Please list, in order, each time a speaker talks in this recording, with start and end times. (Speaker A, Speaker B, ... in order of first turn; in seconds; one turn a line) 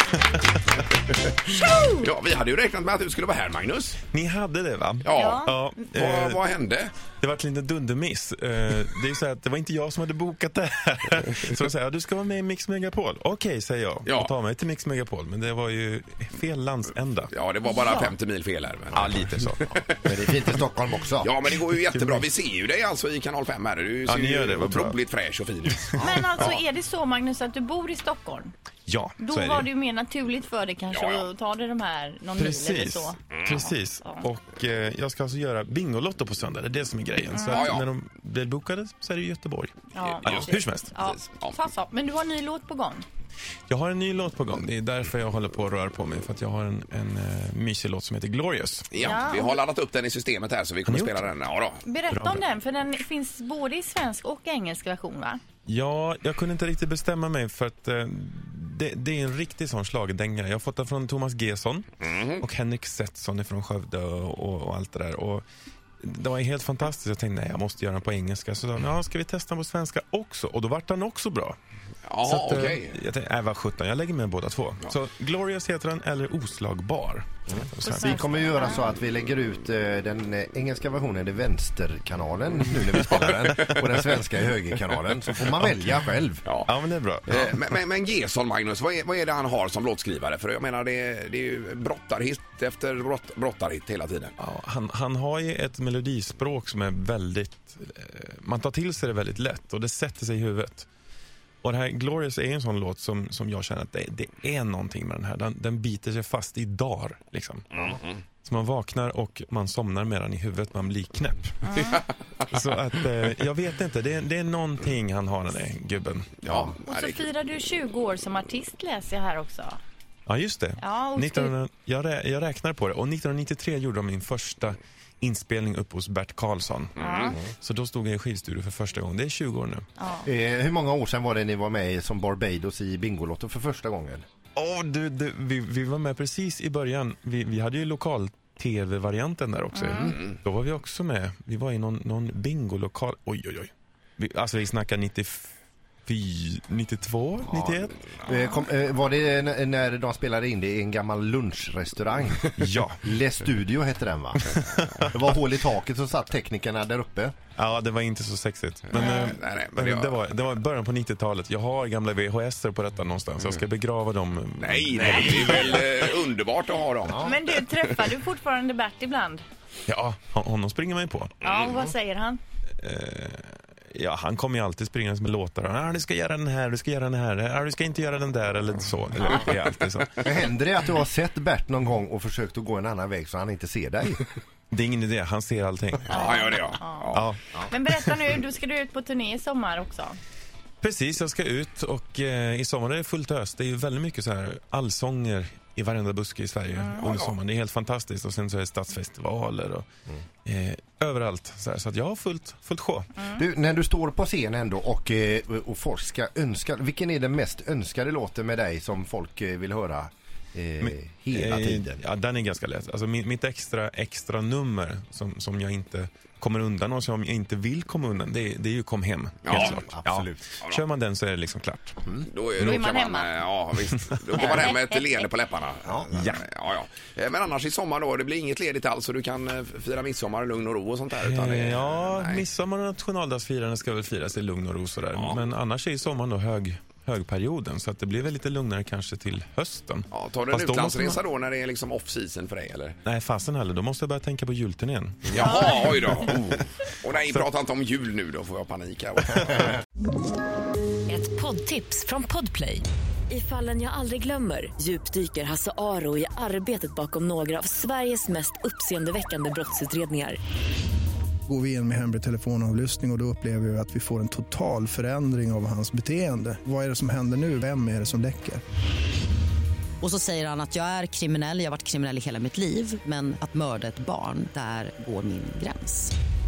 Speaker A: 1.1-4.0
Speaker B: 1.5-2.0
Speaker C: 4.1-6.4
Speaker A: 5.0-6.9
Speaker B: 5.1-5.6
Speaker C: 7.2-17.3
Speaker A: 14.1-14.3
Speaker A: 17.3-19.9
Speaker B: 17.7-18.1
Speaker C: 18.9-19.7
Speaker D: 20.0-21.3
Speaker A: 21.2-26.2
Speaker C: 21.9-22.3
Speaker C: 24.1-25.0
Speaker C: 25.9-26.6
Speaker B: 26.0-28.5
Speaker C: 28.9-29.7
Speaker B: 29.2-34.3
Speaker A: 30.9-31.3
Speaker C: 32.4-40.9
Speaker B: 37.3-37.7
Speaker A: 37.5-37.9
Speaker B: 39.9-43.0
Speaker A: 40.0-41.6
Speaker C: 43.7-49.1
Speaker A: 48.9-51.8
Speaker B: 49.0-49.6
Speaker C: 50.9-51.3
Speaker B: 51.8-55.4
Speaker C: 52.1-52.4
Speaker C: 55.6-61.9
Speaker A: 62.0-62.4
Speaker C: 62.4-65.4
Speaker C: 66.0-71.5
Speaker A: 72.1-73.0
Speaker C: 72.2-78.2
Speaker D: 77.5-86.4
Speaker B: 77.8-78.8
Speaker C: 85.5-85.9
Speaker C: 86.6-87.6
Speaker A: 87.3-94.3
Speaker C: 94.4-100.9
Speaker C: 101.6-107.7
Speaker A: 107.7-108.2
Speaker C: 108.4-111.9
Speaker B: 111.7-112.0
Speaker C: 112.5-116.7
Speaker A: 116.4-117.2
Speaker B: 116.8-119.8
Speaker C: 120.3-129.8
Speaker B: 120.8-121.5
Speaker A: 127.0-127.4
Speaker B: 127.0-127.4
Speaker B: 130.0-130.3
Speaker D: 130.2-134.2
Speaker C: 134.6-145.5
Speaker B: 139.7-140.2
Speaker C: 146.1-148.0
Speaker D: 147.5-157.3
Speaker B: 148.3-148.6
Speaker C: 152.6-153.0
Speaker C: 154.5-155.1
Speaker C: 157.6-165.8
Speaker A: 158.9-160.2
Speaker B: 158.9-159.3
Speaker A: 164.6-167.4
Speaker B: 165.2-165.6
Speaker B: 167.2-169.4
Speaker C: 169.9-171.4
Speaker B: 171.4-172.4
Speaker A: 171.4-171.7
Speaker C: 172.8-180.2
Speaker D: 180.2-184.2
Speaker C: 184.7-186.6
Speaker A: 186.1-187.2
Speaker B: 186.1-190.2
Speaker C: 187.1-187.8
Speaker C: 190.8-199.8
Speaker B: 196.7-197.1
Speaker A: 197.0-197.3
Speaker C: 200.4-203.2
Speaker D: 203.3-212.0
Speaker C: 210.8-222.8
Speaker A: 219.4-219.8
Speaker D: 219.6-220.5
Speaker A: 222.3-232.4
Speaker B: 222.6-223.4
Speaker C: 223.9-224.4
Speaker B: 224.3-225.3
Speaker C: 226.1-226.4
Speaker C: 231.2-241.2
Speaker A: 235.1-235.4
Speaker A: 240.1-243.0
Speaker C: 243.0-246.0
Speaker A: 245.3-249.7
Speaker E: 251.1-260.4
Speaker F: 261.5-268.6
Speaker G: 270.0-276.1